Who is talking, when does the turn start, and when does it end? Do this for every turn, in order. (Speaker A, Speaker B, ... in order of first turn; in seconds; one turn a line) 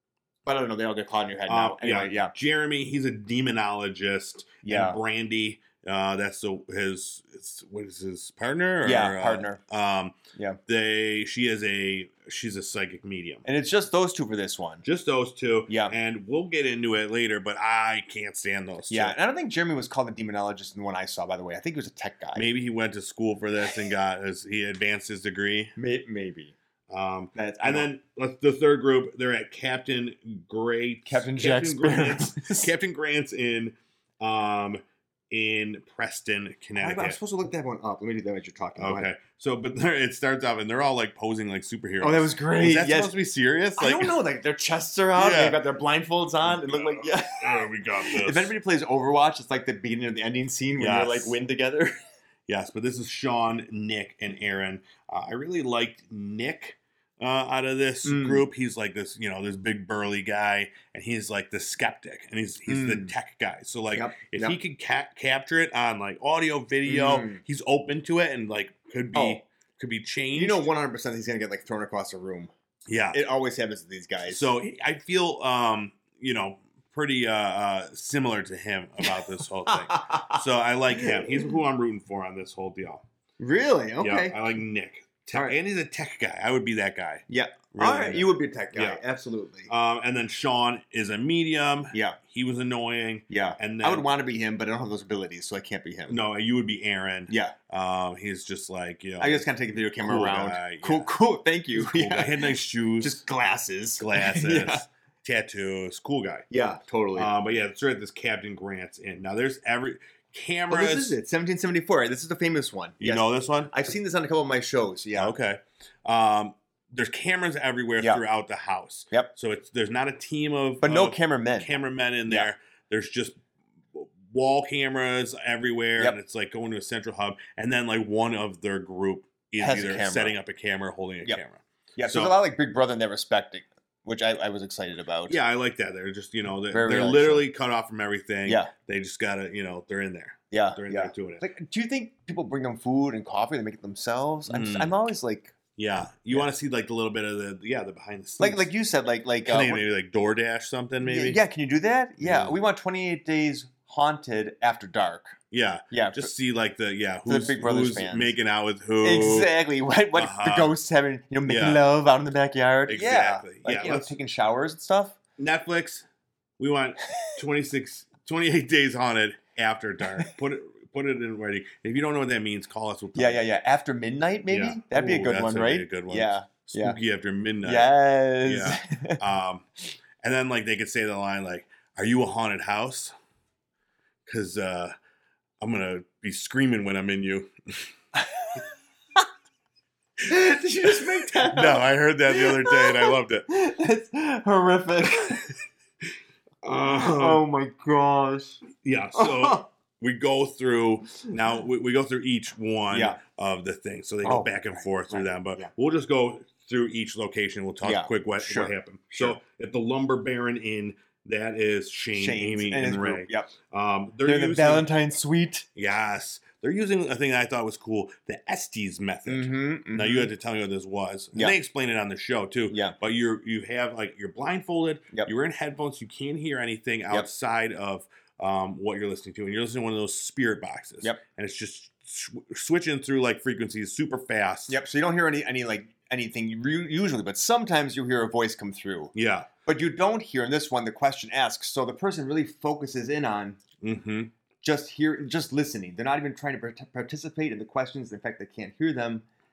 Speaker A: 0.5-2.3
Speaker B: 1.5-13.4
Speaker A: 4.6-5.0
Speaker A: 8.8-9.6
Speaker A: 13.4-14.8
Speaker B: 14.8-19.2
Speaker A: 15.7-15.9
Speaker A: 18.9-22.5
Speaker B: 22.4-25.8
Speaker A: 25.8-26.6
Speaker B: 26.9-37.2
Speaker A: 27.4-27.9
Speaker A: 31.1-32.7
Speaker A: 36.8-39.1
Speaker B: 38.8-44.2
Speaker A: 42.0-43.1
Speaker A: 43.8-51.9
Speaker B: 45.2-45.6
Speaker B: 46.5-48.5
Speaker B: 50.8-51.4
Speaker B: 52.5-70.7
Speaker A: 58.0-58.5
Speaker A: 62.7-63.1
Speaker A: 63.9-64.6
Speaker A: 66.9-67.4
Speaker A: 69.1-69.4
Speaker A: 70.3-72.5
Speaker B: 72.9-73.2
Speaker A: 73.1-74.5
Speaker B: 74.2-83.0
Speaker A: 79.0-80.4
Speaker A: 80.9-81.6
Speaker A: 83.4-84.4
Speaker B: 84.0-89.0
Speaker A: 87.3-89.7
Speaker B: 89.7-94.1
Speaker A: 91.9-92.2
Speaker A: 93.3-96.2
Speaker B: 96.1-99.5
Speaker A: 97.3-97.5
Speaker A: 99.2-104.8
Speaker B: 100.0-101.1
Speaker B: 101.7-103.2
Speaker B: 104.0-106.5
Speaker A: 106.5-107.3
Speaker B: 107.2-111.2
Speaker A: 110.7-115.3
Speaker B: 113.0-113.7
Speaker B: 115.2-123.4
Speaker A: 120.8-121.7
Speaker B: 123.9-132.3
Speaker A: 129.6-130.4
Speaker A: 132.0-135.4
Speaker B: 135.3-141.5
Speaker A: 136.7-137.4
Speaker A: 138.5-138.7
Speaker A: 140.5-145.6
Speaker B: 144.5-144.9
Speaker B: 145.8-148.7
Speaker A: 148.4-149.8
Speaker B: 149.4-151.4
Speaker A: 151.0-155.4
Speaker B: 152.2-152.6
Speaker B: 155.5-159.5
Speaker A: 155.9-156.3
Speaker A: 157.3-158.3
Speaker A: 159.0-165.2
Speaker B: 160.2-160.7
Speaker B: 161.5-161.8
Speaker B: 162.9-164.1
Speaker B: 165.4-166.1
Speaker B: 166.6-173.4
Speaker A: 173.2-177.0
Speaker B: 174.5-177.9
Speaker A: 177.6-179.2
Speaker B: 178.4-179.7
Speaker B: 180.2-183.1
Speaker B: 184.3-184.9
Speaker B: 185.6-187.9
Speaker A: 188.2-188.6
Speaker A: 190.2-195.5
Speaker B: 191.4-193.5
Speaker B: 196.6-197.4
Speaker A: 196.9-198.6
Speaker B: 198.8-214.9
Speaker A: 199.2-199.6
Speaker A: 202.9-203.2
Speaker A: 204.2-205.7
Speaker A: 207.8-209.4
Speaker A: 212.2-213.5
Speaker A: 214.2-215.7
Speaker B: 215.8-234.8
Speaker A: 219.3-220.3
Speaker A: 222.7-223.0
Speaker A: 234.7-239.1
Speaker B: 239.2-239.5
Speaker A: 239.7-243.6
Speaker B: 243.8-244.3
Speaker A: 244.6-249.2